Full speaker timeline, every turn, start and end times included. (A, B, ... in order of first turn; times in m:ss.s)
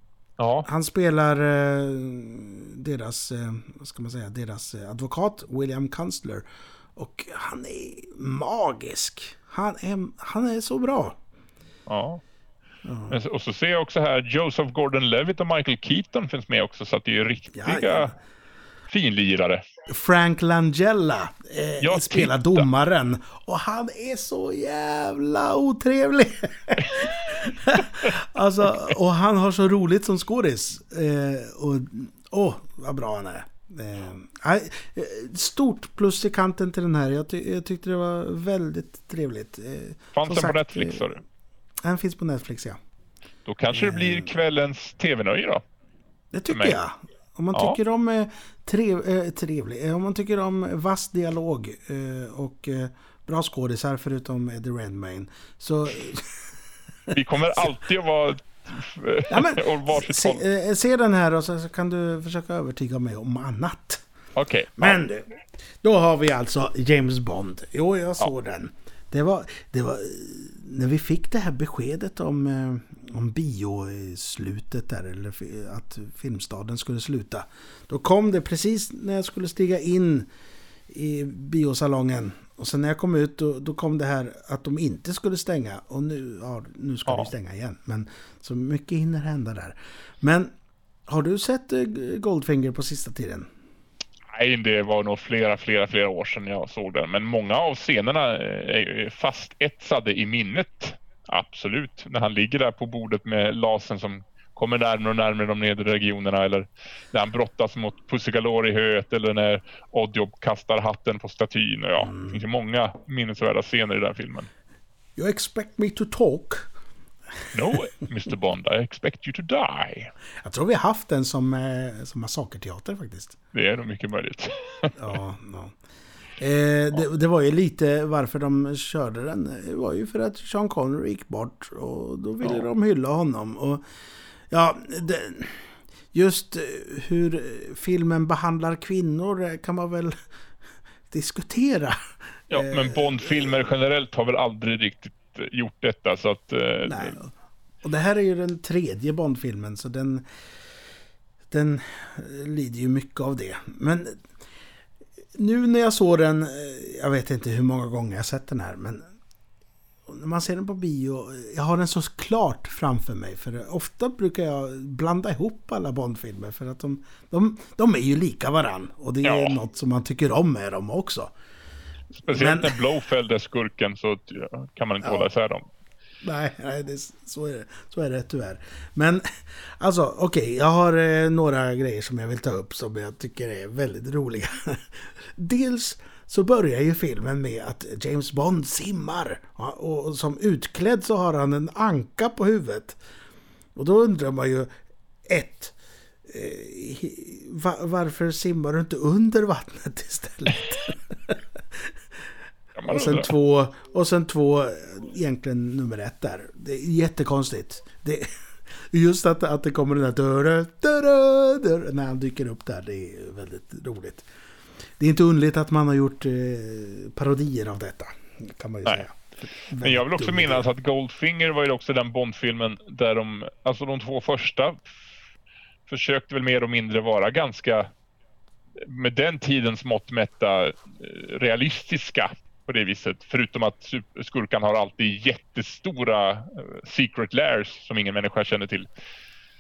0:00.4-0:00.7 A
0:00.6-0:11.2 B
0:11.9-0:12.2 A
0:12.8-0:13.2 B
0:13.1-0:18.2 A
0:17.5-0:18.2 B
0:18.9-0:19.6 A
0:19.9-0:41.1 B
0:21.8-0:22.6 A
0:26.8-0:27.1 A
0:40.1-0:41.2 A
0:41.8-0:42.8 B
0:43.5-0:45.6 A
0:43.7-0:44.3 B
0:46.3-0:56.6 B
0:46.5-0:46.8 A
0:47.5-0:47.8 A
0:57.1-0:57.7 B
0:57.1-1:00.4 A
0:59.3-1:04.0 B
1:04.4-1:05.0 A
1:04.8-1:20.3 B
1:20.9-1:30.5 B
1:31.1-1:33.5 B
1:34.3-1:54.5 A
1:52.0-1:52.4 B
1:55.2-1:56.7 B
1:57.5-2:00.1 A
2:00.4-2:03.4 B
2:03.5-2:05.0 A
2:05.0-2:05.8 B
2:06.4-2:13.8 B
2:14.5-2:20.2 B
2:21.1-2:22.0 B
2:22.5-2:23.6 B
2:22.5-2:27.2 A
2:26.8-2:30.3 B
2:31.5-2:34.2 B
2:35.4-2:39.1 B
2:40.1-2:51.3 B
2:49.2-2:49.6 A
2:52.2-2:55.7 A
2:52.3-2:52.8 B
2:55.0-2:55.3 B
2:56.2-3:13.0 B
3:13.8-3:14.7 B
3:15.3-3:21.9 B
3:22.8-3:23.3 A
3:22.9-3:34.3 B
3:35.0-3:40.7 B
3:39.8-3:45.0 A
3:45.9-3:47.9 A
3:48.8-3:58.9 A